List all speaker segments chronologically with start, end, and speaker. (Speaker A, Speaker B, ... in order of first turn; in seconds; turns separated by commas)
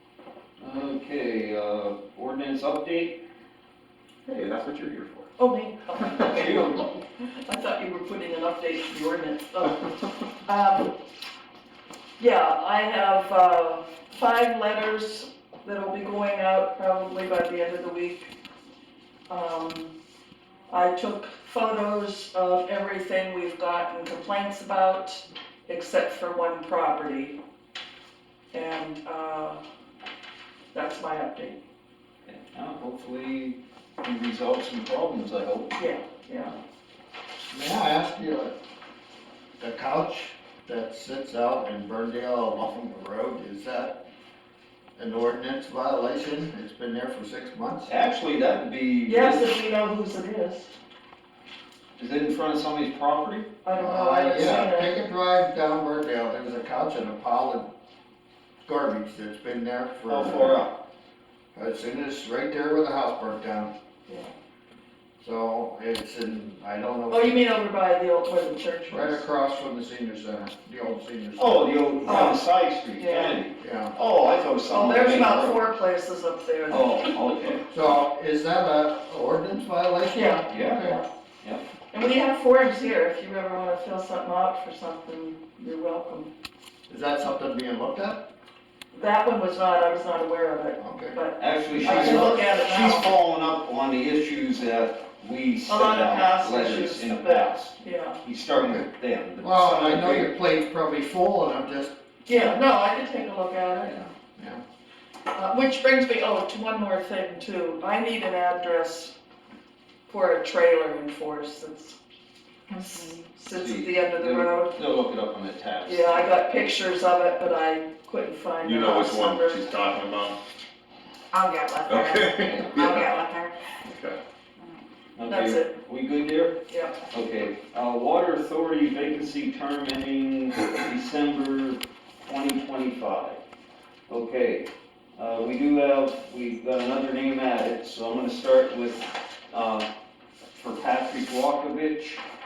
Speaker A: 0.6-3.2, Speaker B: 4.2-5.3, Speaker C: 5.4-9.8, Speaker B: 6.0-6.6, Speaker A: 6.2-7.0, Speaker C: 10.4-10.9, Speaker C: 12.2-18.3, Speaker C: 19.3-19.9, Speaker C: 20.7-27.4, Speaker C: 28.5-29.6, Speaker C: 30.7-31.6, Speaker A: 32.2-35.9, Speaker C: 35.8-36.5, Speaker D: 37.5-38.5, Speaker D: 39.6-44.0, Speaker D: 45.0-47.9, Speaker A: 47.9-49.6, Speaker C: 49.0-50.7, Speaker A: 52.0-53.5, Speaker C: 53.6-54.9, Speaker D: 53.8-57.7, Speaker D: 58.7-60.6, Speaker A: 60.1-60.8, Speaker D: 61.5-63.7, Speaker C: 64.1-64.3, Speaker D: 65.2-67.4, Speaker C: 67.1-69.2, Speaker D: 68.9-72.1, Speaker A: 71.3-75.7, Speaker C: 72.0-73.4, Speaker D: 73.6-73.9, Speaker C: 74.7-77.5, Speaker A: 76.7-77.7, Speaker D: 77.7-81.0, Speaker C: 80.1-81.1, Speaker A: 80.5-80.9, Speaker A: 81.4-81.7, Speaker C: 81.9-86.3, Speaker D: 86.9-88.2, Speaker C: 88.9-93.1, Speaker D: 90.8-91.2, Speaker A: 91.4-100.3, Speaker D: 91.7-92.4, Speaker C: 95.7-98.2, Speaker D: 98.5-98.9, Speaker D: 99.4-101.9, Speaker C: 102.2-104.1, Speaker A: 103.8-104.1, Speaker D: 104.4-104.6, Speaker C: 105.3-109.1, Speaker C: 110.1-112.0, Speaker E: 112.7-113.3, Speaker C: 112.8-114.8, Speaker A: 113.5-116.3, Speaker C: 115.9-119.7, Speaker B: 118.6-120.4, Speaker E: 121.3-123.5, Speaker B: 121.9-123.2, Speaker B: 123.9-124.2, Speaker A: 125.2-126.6, Speaker C: 125.3-125.7, Speaker C: 126.7-127.0, Speaker A: 127.1-133.4, Speaker A: 134.1-139.9, Speaker A: 140.6-142.2